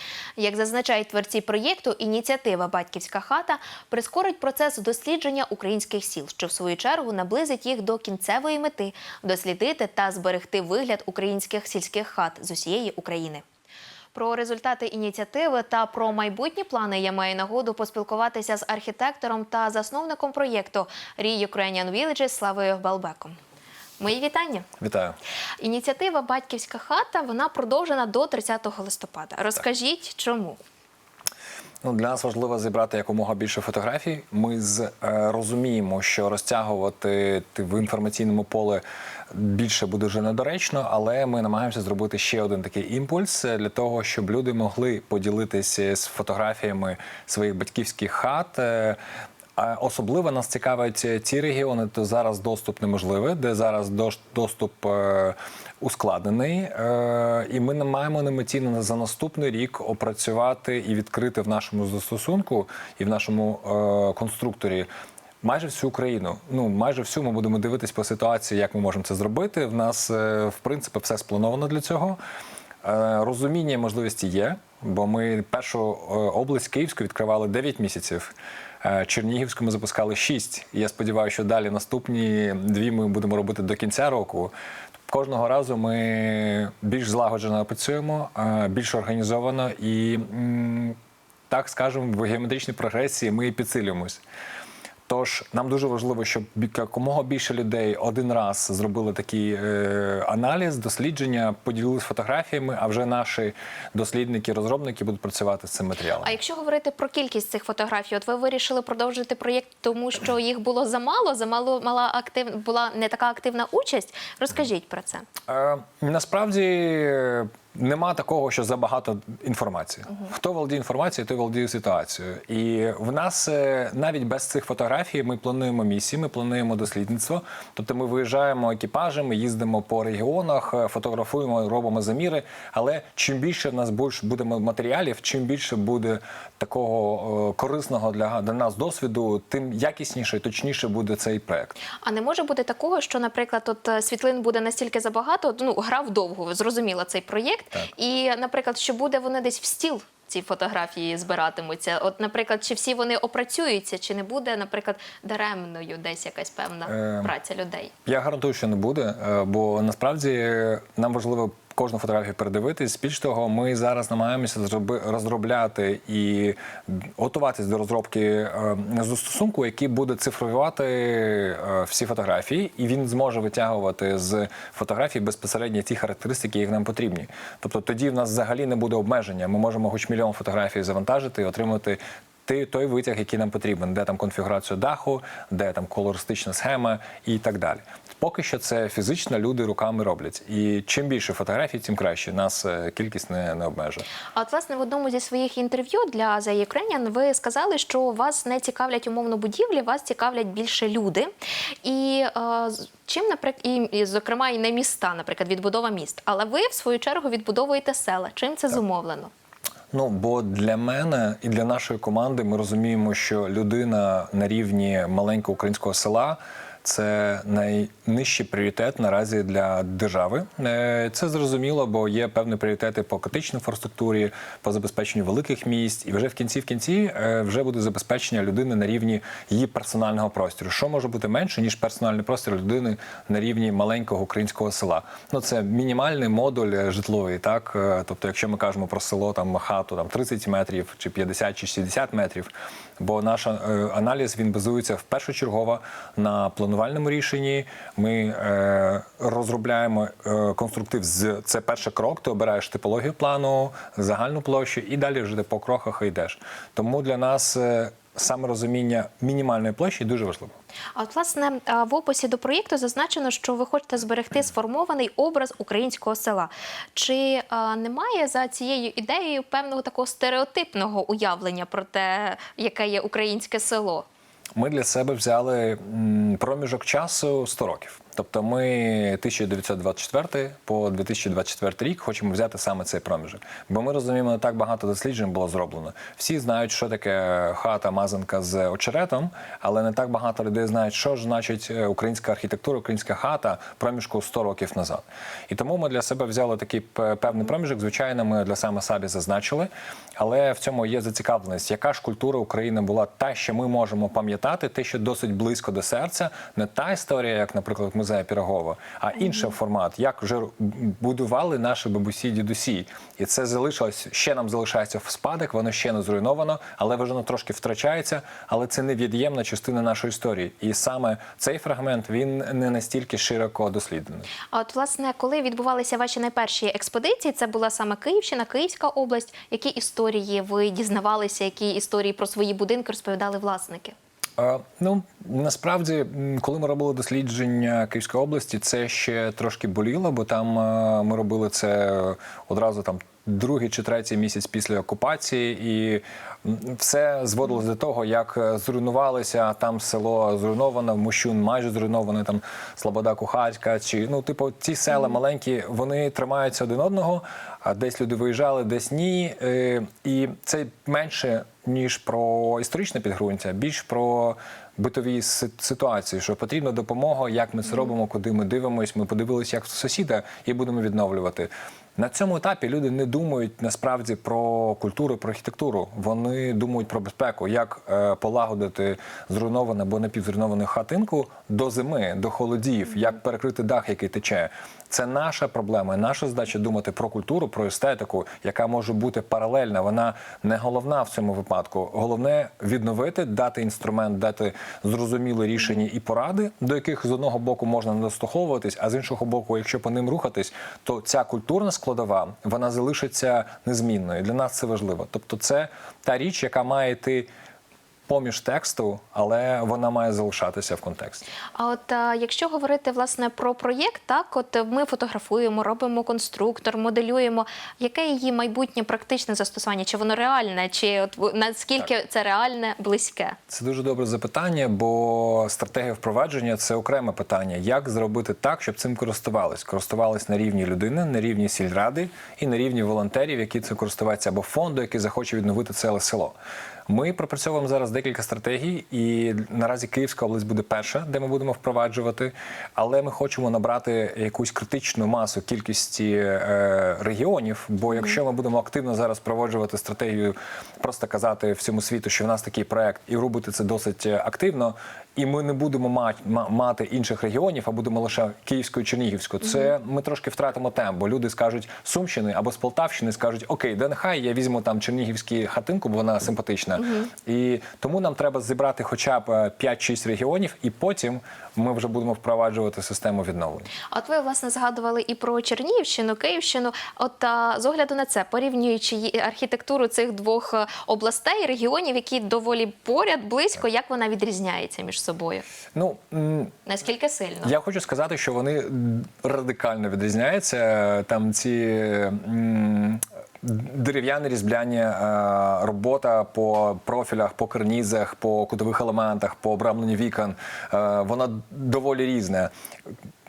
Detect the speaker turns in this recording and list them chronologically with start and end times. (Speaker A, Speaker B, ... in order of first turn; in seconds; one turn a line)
Speaker A: 0.4-13.4
Speaker A: 14.1-23.4
Speaker A: 24.0-24.7
Speaker B: 24.8-25.2
Speaker A: 25.6-30.6
Speaker B: 31.8-49.0
Speaker B: 49.6-64.9
Speaker B: 65.4-72.2
Speaker B: 72.8-84.5
Speaker B: 85.1-91.0
Speaker B: 91.5-94.2
Speaker B: 95.1-106.3
Speaker A: 106.2-115.2
Speaker B: 115.5-141.8
Speaker A: 142.0-157.9
Speaker B: 156.9-157.3
Speaker B: 158.1-194.1
Speaker A: 194.3-201.3
Speaker A: 201.8-209.3
Speaker B: 209.9-260.5
Speaker A: 260.9-274.1
Speaker B: 274.6-324.3
Speaker A: 324.5-333.9
Speaker B: 334.4-407.3
Speaker B: 408.1-411.2
Speaker A: 411.6-423.4
Speaker B: 423.5-436.3
Speaker B: 436.9-473.7
Speaker A: 473.9-485.4
Speaker B: 485.7-486.5
Speaker A: 486.6-487.5
Speaker B: 487.4-502.5